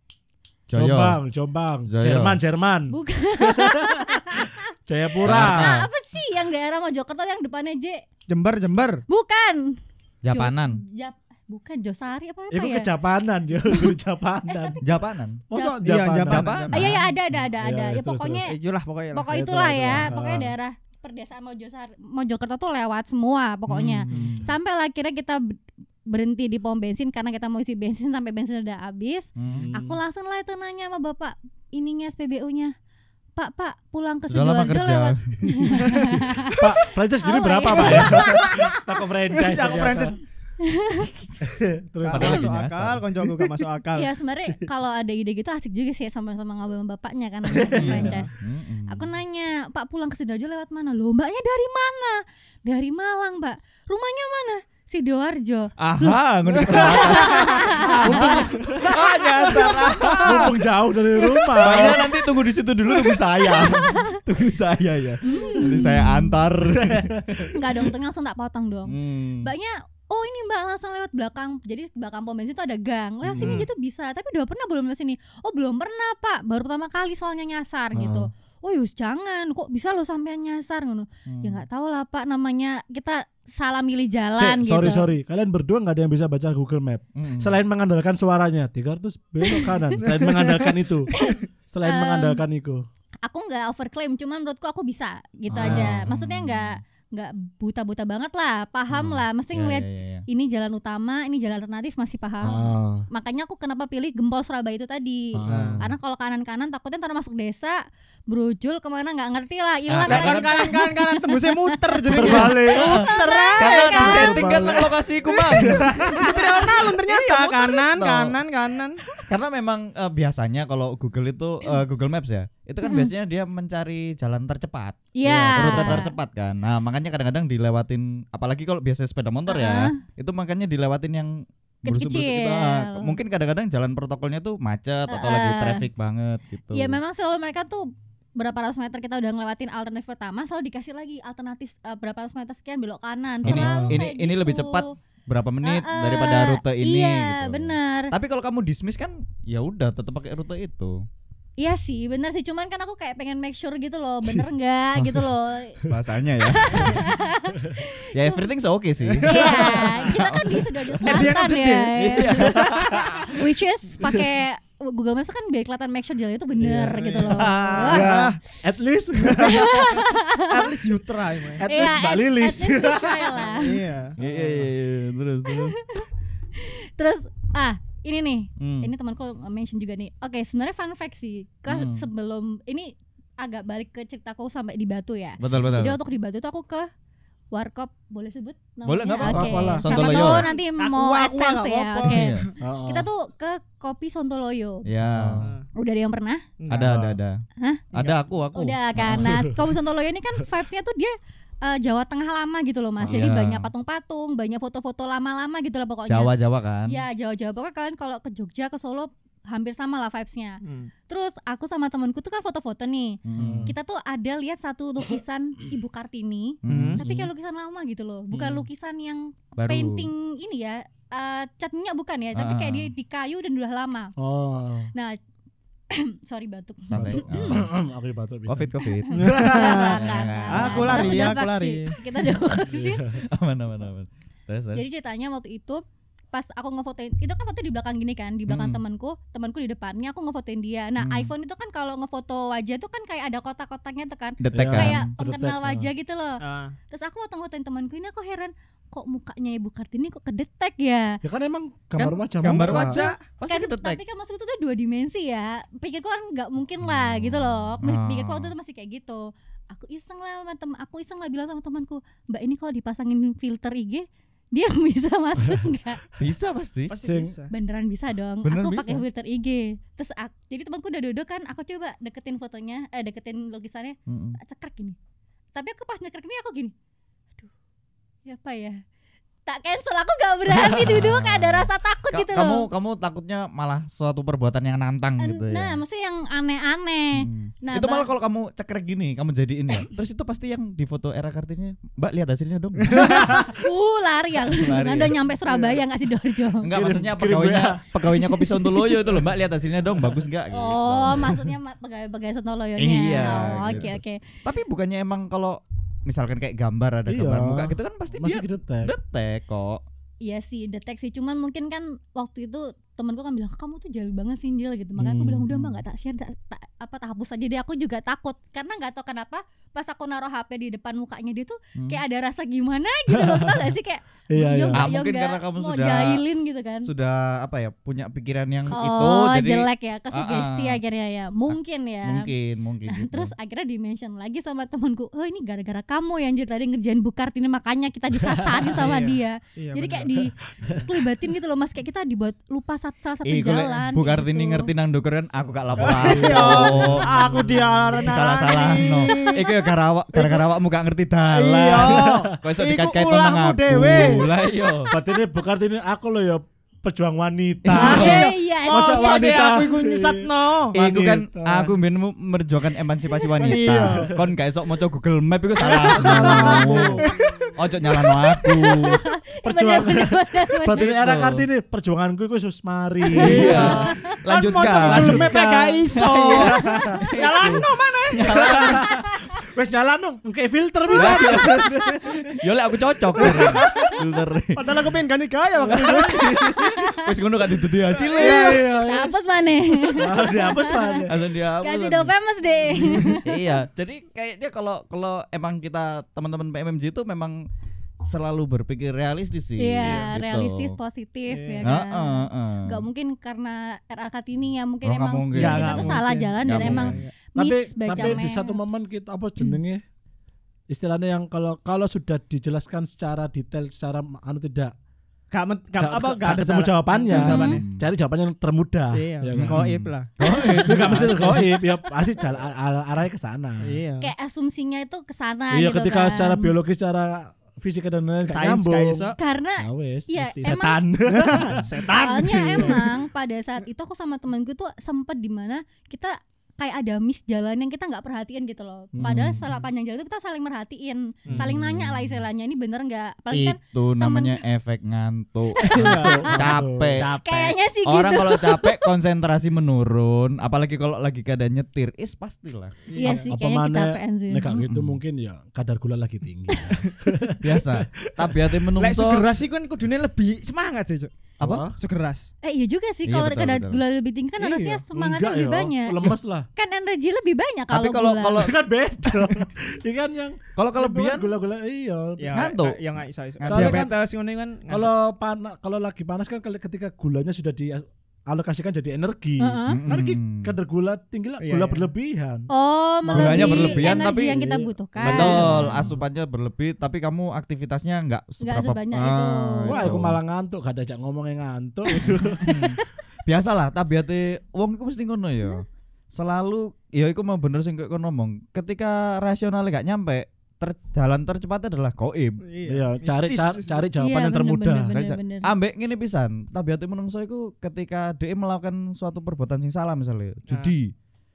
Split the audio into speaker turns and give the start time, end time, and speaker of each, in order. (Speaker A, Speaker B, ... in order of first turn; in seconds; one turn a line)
Speaker A: 0.7-1.2
Speaker B: 0.7-5.7
Speaker A: 1.9-2.4
Speaker C: 2.9-4.7
Speaker A: 5.2-5.9
Speaker C: 5.2-8.0
Speaker D: 8.3-9.0
Speaker C: 9.1-12.9
Speaker A: 10.2-10.8
Speaker B: 12.5-14.8
Speaker C: 13.6-14.8
Speaker A: 14.8-15.4
Speaker B: 15.5-16.6
Speaker C: 15.5-15.8
Speaker D: 15.8-16.8
Speaker A: 16.2-17.0
Speaker C: 16.7-18.6
Speaker B: 17.3-18.4
Speaker D: 18.4-19.3
Speaker C: 19.1-32.7
Speaker B: 19.3-20.5
Speaker A: 23.7-24.5
Speaker B: 24.1-24.4
Speaker A: 29.4-29.7
Speaker B: 29.5-30.0
Speaker C: 33.4-39.0
Speaker A: 34.3-36.1
Speaker B: 36.5-40.2
Speaker D: 39.3-40.2
Speaker C: 40.6-41.1
Speaker B: 41.4-42.5
Speaker D: 42.0-44.1
Speaker A: 42.1-43.0
Speaker B: 43.2-43.5
Speaker C: 43.9-48.4
Speaker B: 47.5-48.1
Speaker A: 47.8-49.1
Speaker D: 47.8-48.3
Speaker C: 48.9-60.5
Speaker A: 55.8-60.5
Speaker D: 56.6-57.1
Speaker B: 58.0-58.9
Speaker B: 60.2-62.0
Speaker C: 61.2-62.2
Speaker A: 61.5-67.6
Speaker C: 63.4-64.2
Speaker C: 65.2-66.3
Speaker B: 66.9-67.2
Speaker C: 67.5-85.1
Speaker A: 68.9-69.5
Speaker A: 73.2-73.6
Speaker D: 73.4-73.7
Speaker A: 78.0-78.2
Speaker A: 81.2-81.6
Speaker B: 84.3-92.8
Speaker A: 87.2-87.6
Speaker C: 89.4-89.9
Speaker D: 90.0-91.3
Speaker C: 91.1-92.4
Speaker C: 93.2-111.5
Speaker A: 95.5-96.8
Speaker B: 95.5-96.0
Speaker A: 98.9-100.2
Speaker B: 102.4-103.1
Speaker B: 105.3-105.9
Speaker D: 105.5-105.8
Speaker A: 105.5-105.8
Speaker A: 109.9-110.6
Speaker D: 110.1-119.0
Speaker B: 112.1-112.9
Speaker C: 112.1-114.3
Speaker A: 112.2-118.3
Speaker B: 114.0-114.9
Speaker B: 115.5-116.3
Speaker A: 119.2-137.0
Speaker C: 122.8-123.1
Speaker C: 125.1-126.1
Speaker B: 125.6-125.9
Speaker C: 129.5-130.0
Speaker C: 131.8-133.1
Speaker C: 135.1-135.8
Speaker C: 136.7-144.9
Speaker B: 143.4-144.0
Speaker A: 143.4-151.1
Speaker C: 145.6-148.1
Speaker C: 151.6-155.8
Speaker A: 155.9-157.1
Speaker C: 156.4-158.5
Speaker A: 158.1-161.3
Speaker D: 159.1-159.9
Speaker C: 159.2-168.1
Speaker D: 161.0-162.3
Speaker A: 162.0-163.3
Speaker B: 166.6-170.0
Speaker D: 167.0-168.4
Speaker A: 167.3-168.3
Speaker D: 169.2-169.6
Speaker C: 169.4-170.7
Speaker D: 170.5-172.0
Speaker B: 171.6-174.7
Speaker C: 171.7-173.8
Speaker D: 173.5-174.1
Speaker A: 174.2-175.8
Speaker C: 175.4-186.9
Speaker A: 178.6-178.9
Speaker A: 181.7-182.0
Speaker A: 185.4-186.0
Speaker C: 187.5-194.8
Speaker A: 188.8-190.5
Speaker B: 189.2-190.1
Speaker D: 189.8-192.5
Speaker A: 192.1-192.4
Speaker B: 192.6-193.1
Speaker A: 194.8-195.5
Speaker B: 195.0-195.5
Speaker C: 195.7-196.4
Speaker D: 196.6-196.9
Speaker A: 196.7-199.5
Speaker B: 196.7-197.2
Speaker C: 198.5-206.3
Speaker B: 199.0-199.6
Speaker A: 203.0-203.7
Speaker A: 206.1-207.0
Speaker C: 206.8-224.1
Speaker D: 210.6-210.9
Speaker A: 213.2-213.7
Speaker B: 213.3-213.7
Speaker A: 216.6-217.3
Speaker D: 216.7-217.0
Speaker A: 219.6-220.1
Speaker A: 222.3-222.9
Speaker B: 224.2-224.9
Speaker C: 225.9-227.6
Speaker A: 226.9-227.7
Speaker B: 226.9-229.7
Speaker A: 228.5-231.4
Speaker C: 228.9-233.1
Speaker D: 229.2-229.9
Speaker D: 230.5-231.9
Speaker B: 232.7-233.2
Speaker A: 233.2-234.8
Speaker C: 234.7-235.8
Speaker C: 236.3-251.2
Speaker A: 238.5-238.8
Speaker A: 241.0-241.3
Speaker A: 244.4-245.1
Speaker B: 244.5-245.9
Speaker D: 246.4-246.8
Speaker B: 251.2-253.0
Speaker A: 252.0-254.0
Speaker D: 252.5-253.1
Speaker C: 253.5-266.0
Speaker A: 256.8-258.5
Speaker A: 266.2-266.9
Speaker D: 266.9-267.5
Speaker B: 267.0-267.3
Speaker C: 267.5-275.0
Speaker A: 268.4-269.0
Speaker A: 274.1-274.4
Speaker C: 275.5-276.7
Speaker C: 278.2-278.8
Speaker C: 279.4-282.7
Speaker A: 280.5-285.8
Speaker C: 285.2-288.1
Speaker A: 287.1-293.5
Speaker C: 292.9-296.7
Speaker A: 294.6-295.2
Speaker A: 296.6-301.4
Speaker B: 296.7-299.2
Speaker C: 300.5-304.2
Speaker A: 302.8-303.9
Speaker A: 304.4-309.8
Speaker B: 307.1-308.9
Speaker C: 310.2-326.9
Speaker B: 315.0-315.5
Speaker A: 315.5-315.8
Speaker B: 323.2-323.7
Speaker B: 324.3-324.9
Speaker A: 324.7-326.2
Speaker A: 326.8-330.8
Speaker C: 328.7-332.3
Speaker A: 331.5-333.3
Speaker C: 332.9-344.7
Speaker B: 338.2-338.9
Speaker D: 338.8-340.1
Speaker A: 343.2-354.9
Speaker B: 345.7-347.9
Speaker D: 345.8-349.5
Speaker C: 348.9-349.3
Speaker D: 350.1-350.4
Speaker D: 351.3-354.3
Speaker B: 351.8-352.4
Speaker B: 354.9-361.8
Speaker A: 357.6-358.3
Speaker D: 357.7-360.8
Speaker C: 357.8-359.4
Speaker A: 360.7-369.0
Speaker D: 363.4-364.1
Speaker B: 363.4-364.2
Speaker D: 365.6-367.5
Speaker B: 365.8-367.1
Speaker C: 366.0-367.1
Speaker C: 367.9-370.9
Speaker B: 369.4-374.1
Speaker A: 370.7-371.4
Speaker C: 373.1-374.1
Speaker D: 373.1-378.7
Speaker A: 373.2-375.3
Speaker B: 374.8-377.5
Speaker A: 375.9-378.9
Speaker B: 378.3-382.3
Speaker C: 378.9-379.2
Speaker A: 380.9-381.7
Speaker C: 380.9-382.0
Speaker A: 382.3-384.8
Speaker B: 383.1-383.9
Speaker D: 384.6-386.1
Speaker B: 385.6-386.8
Speaker A: 385.7-388.6
Speaker C: 386.2-387.0
Speaker D: 387.9-388.6
Speaker B: 388.1-389.2
Speaker C: 388.2-393.5
Speaker B: 389.9-391.2
Speaker A: 391.1-392.1
Speaker B: 392.8-393.2
Speaker A: 392.9-397.4
Speaker A: 398.0-400.8
Speaker C: 399.6-408.9
Speaker D: 399.8-400.1
Speaker D: 401.3-401.7
Speaker A: 401.6-402.8
Speaker A: 404.8-407.0
Speaker D: 405.3-407.1
Speaker B: 406.6-409.8
Speaker B: 410.7-414.7
Speaker D: 415.3-417.6
Speaker B: 415.8-419.6
Speaker A: 417.1-417.8
Speaker C: 417.1-417.6
Speaker D: 418.9-421.4
Speaker A: 419.3-421.4
Speaker C: 420.3-420.6
Speaker B: 420.6-423.8
Speaker D: 423.6-424.1
Speaker C: 424.0-426.5
Speaker B: 425.5-432.8
Speaker D: 428.2-429.2
Speaker C: 429.2-430.8
Speaker D: 430.4-432.9
Speaker C: 431.8-444.4
Speaker B: 438.9-439.4
Speaker A: 439.0-439.4
Speaker A: 441.3-442.2
Speaker A: 443.3-447.1
Speaker D: 445.7-446.5
Speaker C: 445.7-446.2
Speaker B: 445.7-447.5
Speaker C: 447.2-448.9
Speaker A: 447.8-452.8
Speaker D: 452.9-453.3
Speaker C: 453.0-454.5
Speaker B: 453.0-458.4
Speaker A: 454.4-455.0
Speaker C: 456.5-456.8
Speaker A: 457.4-459.3
Speaker D: 458.8-461.1
Speaker A: 461.4-461.6
Speaker B: 461.4-461.8
Speaker D: 461.8-462.3
Speaker C: 462.4-468.4
Speaker A: 463.0-463.8
Speaker D: 464.4-464.8
Speaker B: 464.9-466.5
Speaker A: 467.7-468.5
Speaker B: 468.4-472.4
Speaker A: 470.6-471.3
Speaker D: 472.2-474.9
Speaker A: 472.3-472.8
Speaker A: 473.4-473.9
Speaker B: 473.5-473.9
Speaker B: 474.7-482.5
Speaker C: 479.4-479.8
Speaker A: 479.7-480.5
Speaker D: 481.4-481.9
Speaker C: 482.5-485.8
Speaker B: 483.1-486.0
Speaker A: 483.1-484.5
Speaker A: 485.0-490.2
Speaker C: 488.4-489.9
Speaker B: 489.7-492.8
Speaker C: 491.9-492.8
Speaker A: 492.4-502.4
Speaker D: 502.4-503.9
Speaker B: 502.7-505.0
Speaker C: 504.0-505.5
Speaker A: 504.9-510.9
Speaker D: 510.5-510.7